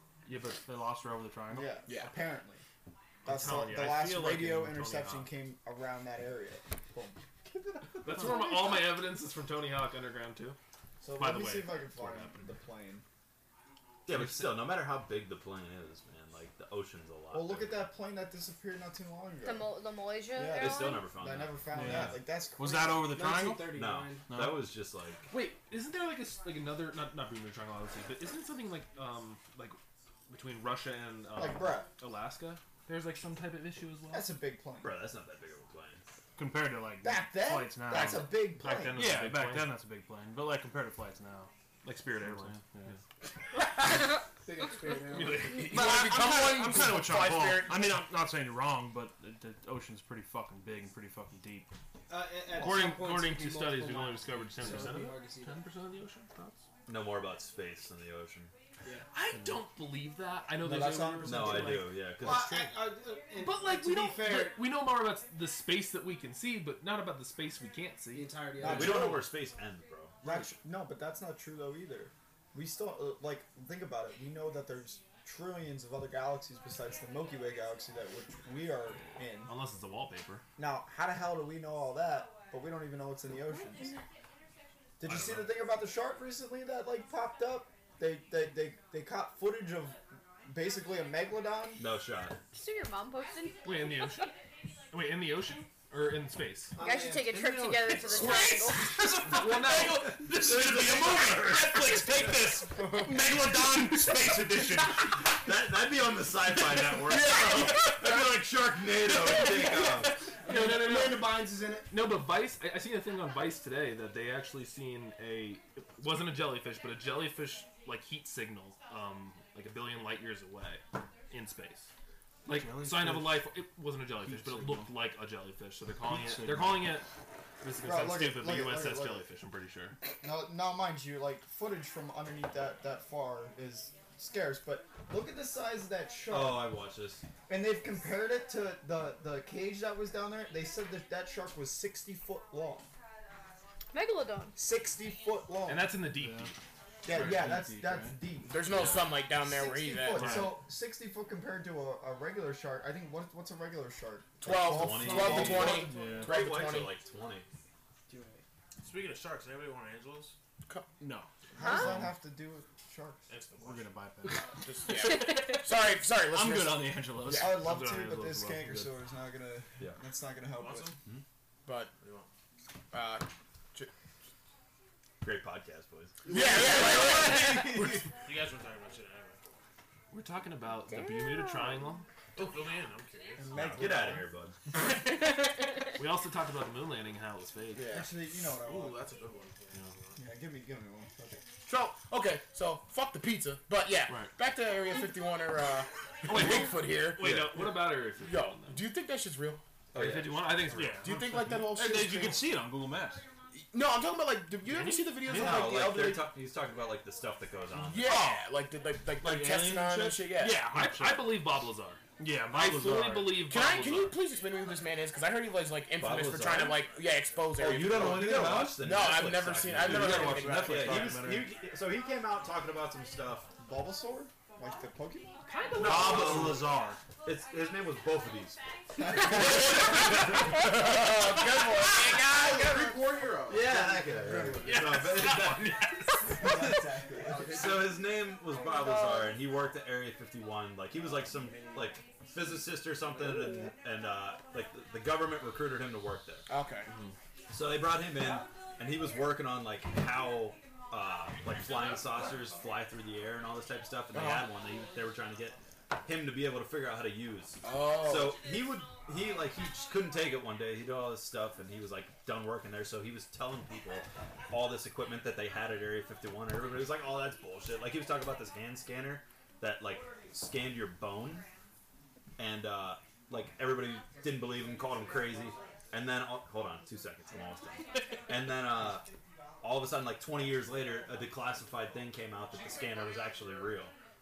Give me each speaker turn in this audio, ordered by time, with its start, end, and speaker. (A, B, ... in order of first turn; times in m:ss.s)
0:00.2-0:01.7 A
0:01.5-0:02.6 B
0:01.9-0:02.1 C
0:03.2-0:05.3 D
0:03.2-0:09.0 B
0:08.0-0:10.6 D
0:11.0-0:13.0 B
0:11.2-0:12.4 D
0:14.0-0:17.8 E
0:17.3-0:19.7 B
0:19.4-0:21.1 F
0:20.3-0:23.1 B
0:20.5-0:22.2 E
0:21.7-0:23.7 A
0:22.9-0:24.3 G
0:23.7-0:25.3 E
0:24.3-0:24.7 A
0:25.3-0:29.8 D
0:30.3-0:34.3 D
0:31.3-0:31.9 B
0:34.1-0:35.0 B
0:34.8-0:36.0 E
0:36.4-0:38.4 A
0:37.0-0:39.0 B
0:38.5-0:39.8 D
0:38.9-0:41.5 A
0:41.8-0:43.0 D
0:42.2-0:43.0 A
0:44.4-0:45.7 G
0:45.0-0:46.0 D
0:45.6-0:48.0 C
0:45.7-0:51.7 A
0:52.1-0:55.6 G
0:52.5-0:56.6 D
0:56.9-0:58.5 E
0:59.1-1:02.1 D
1:00.6-1:01.9 B
1:01.2-1:02.8 E
1:02.1-1:04.6 G
1:03.3-1:09.2 D
1:08.1-1:09.0 G
1:08.6-1:09.3 B
1:08.6-1:10.2 E
1:10.2-1:19.5 B
1:19.4-1:20.4 D
1:20.6-1:23.9 B
1:25.0-1:31.8 B
1:25.1-1:25.5 D
1:31.8-1:32.4 E
1:32.5-1:34.2 F
1:33.6-1:34.3 D
1:34.9-1:36.7 D
1:36.8-1:37.3 G
1:36.8-1:39.0 F
1:36.9-1:38.4 B
1:38.1-1:45.2 A
1:38.1-1:40.6 D
1:39.7-1:42.3 E
1:45.2-1:50.2 E
1:47.1-1:48.1 A
1:49.2-1:49.6 G
1:50.4-1:51.9 G
1:50.4-2:01.9 D
2:02.4-2:07.0 D
2:02.5-2:03.4 A
2:04.2-2:04.9 A
2:06.0-2:06.9 A
2:07.6-2:10.0 D
2:07.8-2:09.2 B
2:10.2-2:16.8 B
2:16.3-2:17.2 E
2:17.5-2:22.9 B
2:23.9-2:24.5 F
2:24.6-2:26.0 B
2:25.6-2:26.6 D
2:26.1-2:26.5 A
2:27.0-2:28.6 B
2:27.1-2:28.2 A
2:27.1-2:27.4 E
2:28.5-2:30.5 C
2:28.6-2:29.1 E
2:29.4-2:35.8 B
2:30.1-2:30.6 A
2:34.4-2:37.0 C
2:34.5-2:37.5 E
2:35.2-2:36.2 G
2:35.7-2:36.3 A
2:38.1-2:38.4 G
2:38.8-2:40.3 H
2:41.0-2:42.1 A
2:41.5-2:43.2 B
2:41.6-2:41.9 F
2:43.3-2:43.9 H
2:43.6-2:45.3 A
2:44.7-2:47.5 C
2:45.0-2:45.6 F
2:46.3-2:47.5 A
2:47.3-2:50.9 B
2:47.3-2:48.9 D
2:50.5-2:51.0 H
2:51.6-2:51.9 C
2:52.0-2:52.3 H
2:52.9-2:53.9 C
2:55.2-2:56.2 E
2:56.3-2:57.7 C
2:56.5-2:58.0 D
2:56.7-2:57.3 A
2:58.2-2:59.4 H
3:00.1-3:02.0 D
3:00.8-3:02.0 F
3:02.4-3:03.6 H
3:03.5-3:04.6 E
3:03.5-3:04.2 B
3:03.8-3:04.1 G
3:05.1-3:05.5 F
3:05.9-3:07.9 D
3:07.7-3:08.1 C
3:07.9-3:09.0 B
3:08.5-3:10.2 H
3:10.2-3:11.4 B
3:11.6-3:19.6 C
3:16.2-3:18.8 D
3:17.2-3:17.5 E
3:19.9-3:20.9 E
3:19.9-3:21.5 D
3:20.7-3:23.2 A
3:21.0-3:22.4 C
3:23.5-3:26.1 C
3:24.6-3:25.2 D
3:25.3-3:25.6 A
3:25.3-3:28.1 E
3:25.4-3:26.2 B
3:27.7-3:30.6 C
3:28.0-3:28.4 A
3:29.2-3:31.4 A
3:30.7-3:34.1 D
3:32.2-3:33.3 A
3:33.5-3:41.2 C
3:36.0-3:36.9 E
3:37.6-3:43.5 E
3:37.6-3:38.8 A
3:39.8-3:41.5 A
3:43.6-3:45.4 B
3:45.5-3:46.6 D
3:45.7-3:46.7 E
3:45.8-3:47.0 A
3:47.2-3:48.6 E
3:49.0-3:49.9 B
3:49.1-3:53.1 C
3:49.2-3:49.6 E
3:52.4-3:55.0 G
3:53.5-3:56.8 E
3:53.5-3:54.8 B
3:54.6-3:56.6 D
3:56.3-3:57.7 B
3:57.1-3:58.0 G
3:57.5-4:06.4 E
3:58.7-3:59.3 F
4:06.5-4:06.9 C
4:06.9-4:07.1 D
4:07.5-4:31.4 E
4:14.1-4:14.5 C
4:17.6-4:18.4 C
4:32.4-4:39.0 E
4:39.6-4:43.9 E